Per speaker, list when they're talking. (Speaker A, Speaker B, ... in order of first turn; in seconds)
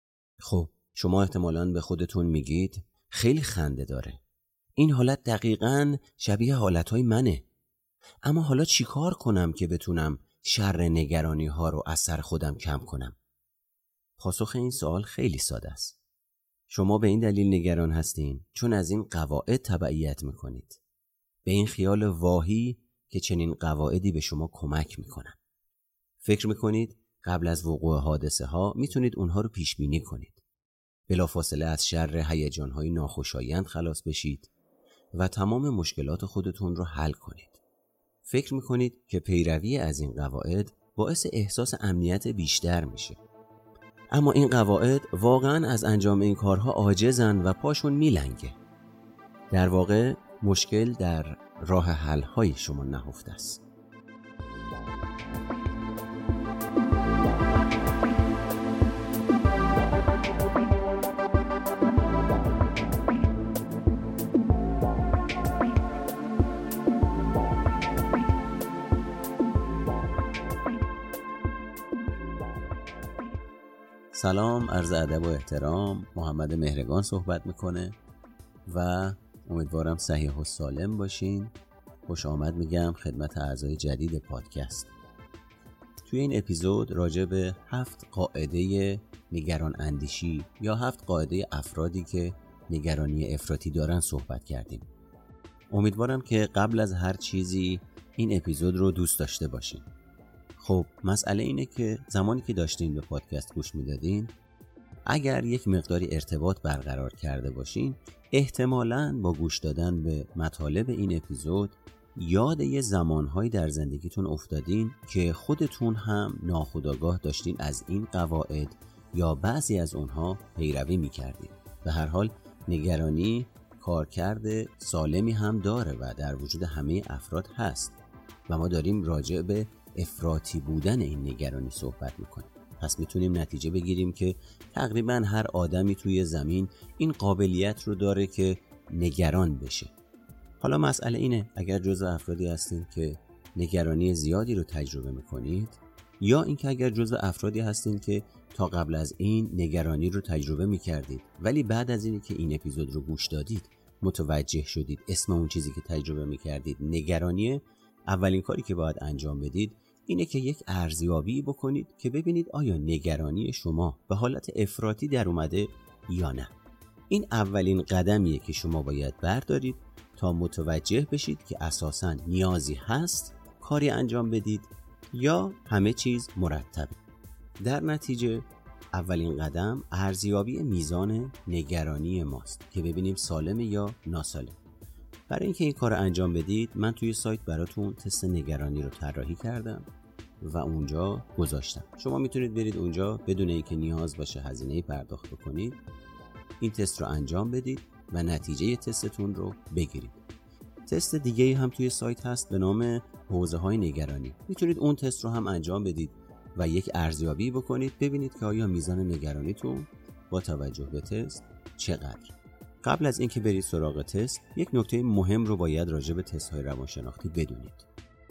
Speaker A: 0.4-4.2, 4.8-7.5, 8.2-13.2, 14.2-16.0, 16.7-20.8, 21.4-25.4, 26.2-30.4, 31.1-34.5, 35.1-37.6, 38.2-43.2, 44.1-48.6, 49.5-53.6, 74.1-78.0, 78.7-81.5, 82.0-84.9, 86.0-94.9, 95.7-99.9, 100.6-104.3, 105.1-139.9, 140.6-166.5, 167.1-177.0, 177.6-184.6, 185.3-189.9, 190.4-195.8, 196.6-200.2, 200.9-217.9